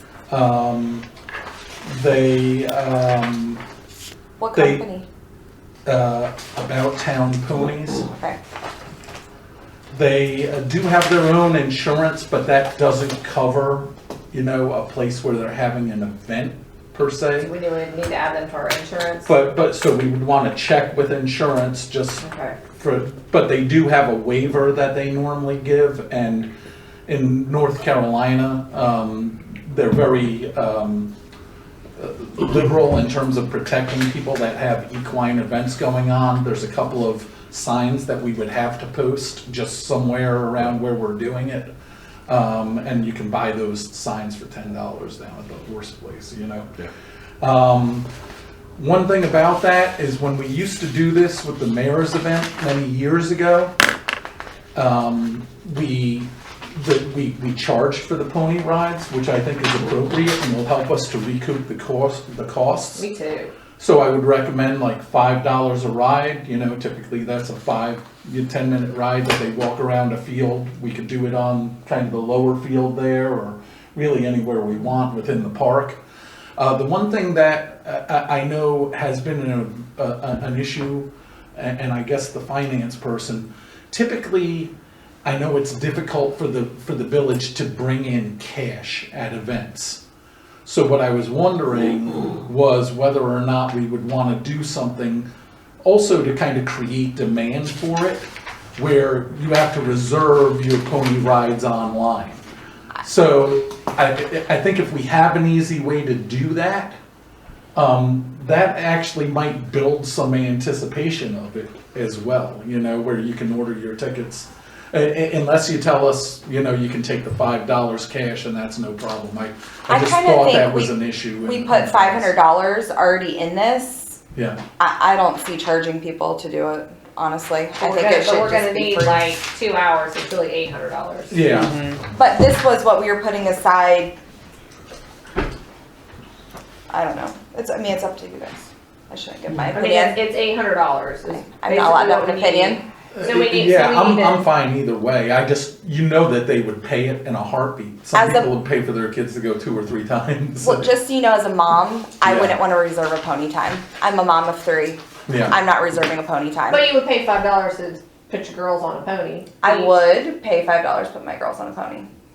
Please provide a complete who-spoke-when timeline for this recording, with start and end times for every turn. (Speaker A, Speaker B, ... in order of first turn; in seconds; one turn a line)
Speaker A: 0.3-1.0
Speaker A: 1.8-3.6
Speaker B: 4.4-5.0
Speaker A: 4.5-4.8
Speaker A: 5.8-8.1
Speaker B: 8.1-8.4
Speaker A: 9.9-17.5
Speaker C: 17.4-19.3
Speaker A: 19.2-26.5
Speaker C: 22.2-22.6
Speaker A: 27.1-31.1
Speaker A: 32.0-41.7
Speaker A: 42.3-46.7
Speaker A: 47.4-48.1
Speaker A: 48.8-53.7
Speaker A: 54.7-63.0
Speaker C: 62.9-63.5
Speaker A: 63.8-76.0
Speaker A: 76.6-84.7
Speaker A: 85.2-90.0
Speaker A: 90.6-95.3
Speaker A: 95.8-98.2
Speaker A: 98.8-102.4
Speaker A: 103.0-106.9
Speaker A: 107.8-122.3
Speaker B: 119.9-124.2
Speaker A: 124.3-124.6
Speaker B: 124.8-129.4
Speaker C: 127.8-131.4
Speaker A: 131.3-131.8
Speaker B: 131.5-134.2
Speaker B: 136.9-140.2
Speaker C: 139.7-144.4
Speaker B: 141.3-142.8
Speaker A: 143.1-150.9
Speaker B: 148.1-148.5
Speaker B: 150.6-156.8
Speaker A: 152.2-152.6
Speaker A: 155.3-155.5
Speaker C: 156.7-160.0
Speaker B: 159.6-162.1